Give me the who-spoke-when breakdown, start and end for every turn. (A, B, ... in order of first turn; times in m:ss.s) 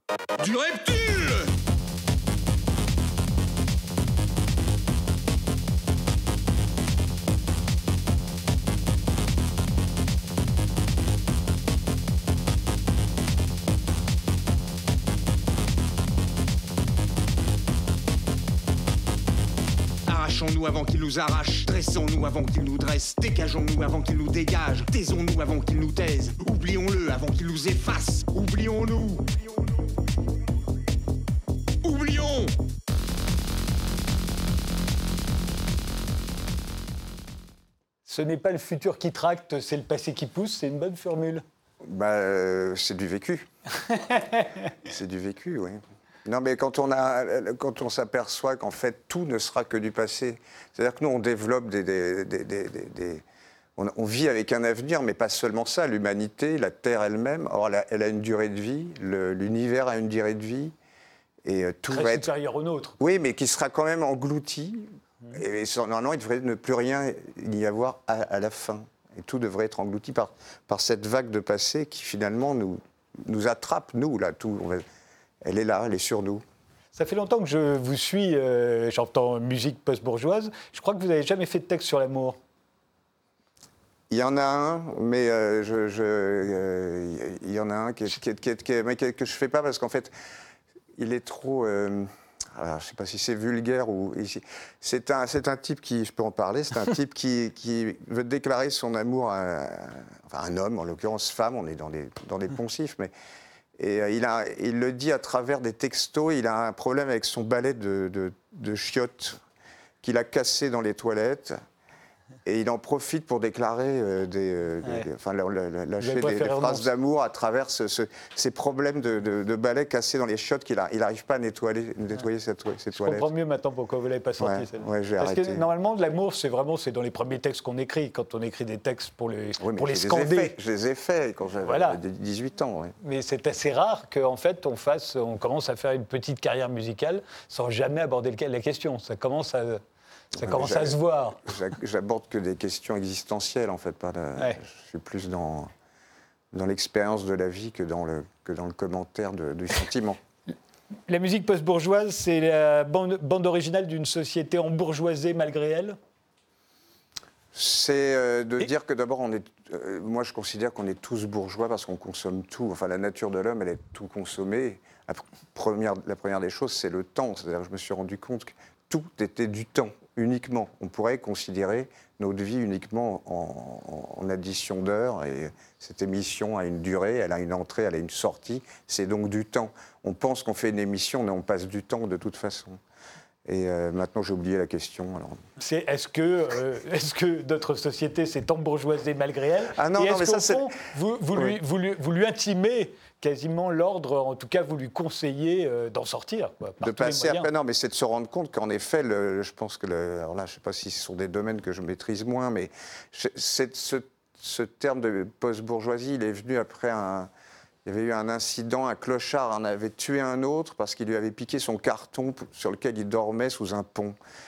0:00.4-0:01.6 A
0:20.1-0:29.4 A
0:31.8-0:32.6 A
0:38.1-0:41.4 B
0:41.8-0:43.5 C
0:44.8-0:53.2 C
0:53.8-1:00.7 C
1:01.4-1:02.3 C
1:01.9-1:03.0 B
1:03.0-1:14.8 C
1:15.4-1:16.4 C
1:16.9-1:22.4 B
1:24.1-1:30.1 C
1:31.0-1:43.1 C
1:43.8-1:49.4 C
1:50.0-1:51.6 C
1:52.4-2:03.3 C
1:56.0-1:56.9 B
2:02.9-2:10.5 B
2:04.4-2:05.6 C
2:09.6-2:12.9 C
2:11.6-2:12.0 B
2:13.0-2:19.8 B
2:20.4-2:21.5 B
2:20.4-2:25.7 C
2:26.5-2:30.2 C
2:31.1-2:36.0 B
2:37.5-3:02.8 C
3:03.4-3:05.4 C
3:05.6-3:17.5 B
3:09.7-3:10.7 C
3:16.8-3:27.3 C
3:27.8-3:34.2 C